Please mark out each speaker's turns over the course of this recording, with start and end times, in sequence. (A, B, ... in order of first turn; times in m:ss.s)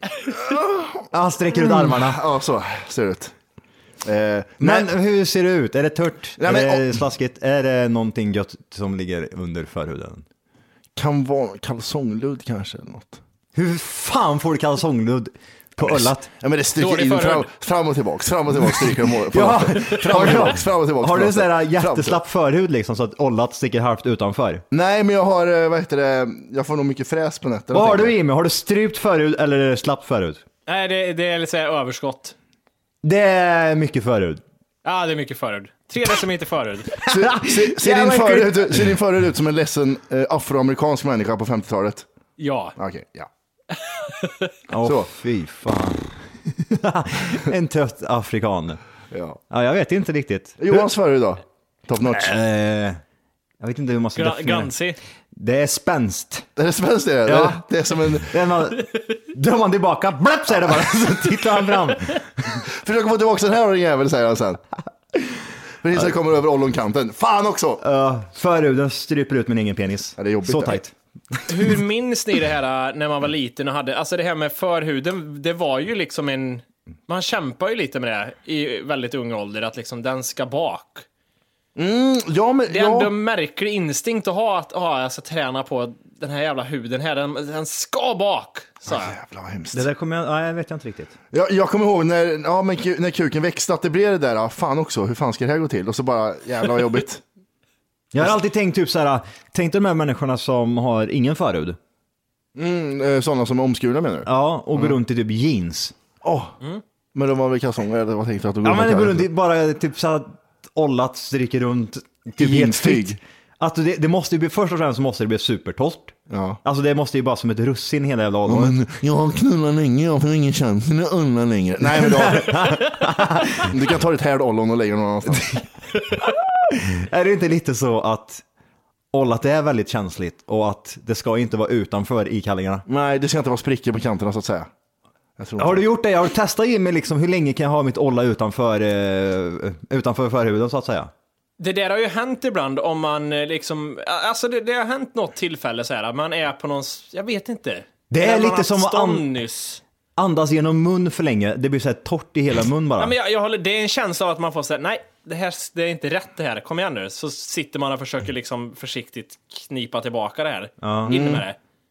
0:00.3-0:03.3 A
0:01.1-0:02.2 B
0:04.0-0:04.9 A
0:04.6-0:10.2 B
0:06.4-0:07.0 A
0:11.0-0:13.2 A
0:13.5-0:16.3 B
0:15.8-0:22.2 A
0:16.8-0:17.5 C
0:19.3-0:24.6 B
0:24.7-0:28.2 A
0:27.7-0:30.4 B
0:30.7-0:32.4 C
0:33.0-0:34.4 B
0:34.8-0:36.9 C
0:37.0-0:39.0 B
0:37.1-0:42.1 A
0:42.4-0:42.8 C
0:42.8-0:43.3 A
0:43.8-0:44.5 C
0:44.7-0:48.8 B
0:44.8-0:45.1 A
0:49.1-0:49.4 A
0:49.5-0:50.9 B
0:50.6-0:52.3 A
0:52.0-0:53.0 B
0:53.6-0:54.7 B
0:54.2-0:55.0 C
0:55.3-0:56.5 B
0:56.6-0:58.3 A
0:57.2-0:57.6 B
0:58.2-1:02.6 B
1:02.8-1:04.6 A
1:05.8-1:07.8 A
1:07.8-1:10.9 B
1:10.2-1:10.8 A
1:11.5-1:21.1 C
1:21.8-1:23.1 A
1:22.7-1:29.2 C
1:28.9-1:29.9 A
1:29.7-1:31.1 B
1:31.3-1:37.2 A
1:38.1-1:41.8 B
1:42.6-1:45.0 A
1:44.3-1:46.0 B
1:46.2-1:46.6 A
1:47.2-1:49.3 A
1:48.6-1:58.8 B
1:52.4-1:53.2 A
1:56.3-1:56.6 A
1:58.5-2:02.9 A
2:01.8-2:03.7 B
2:03.6-2:05.6 A
2:05.3-2:08.4 B
2:09.1-2:12.8 B
2:12.9-2:14.7 A
2:15.4-2:15.9 A
2:15.6-2:21.1 B
2:21.6-2:29.8 C
2:28.1-2:29.3 B
2:30.2-2:33.1 B
2:33.0-2:41.6 C
2:40.8-2:41.2 B
2:41.1-2:41.4 A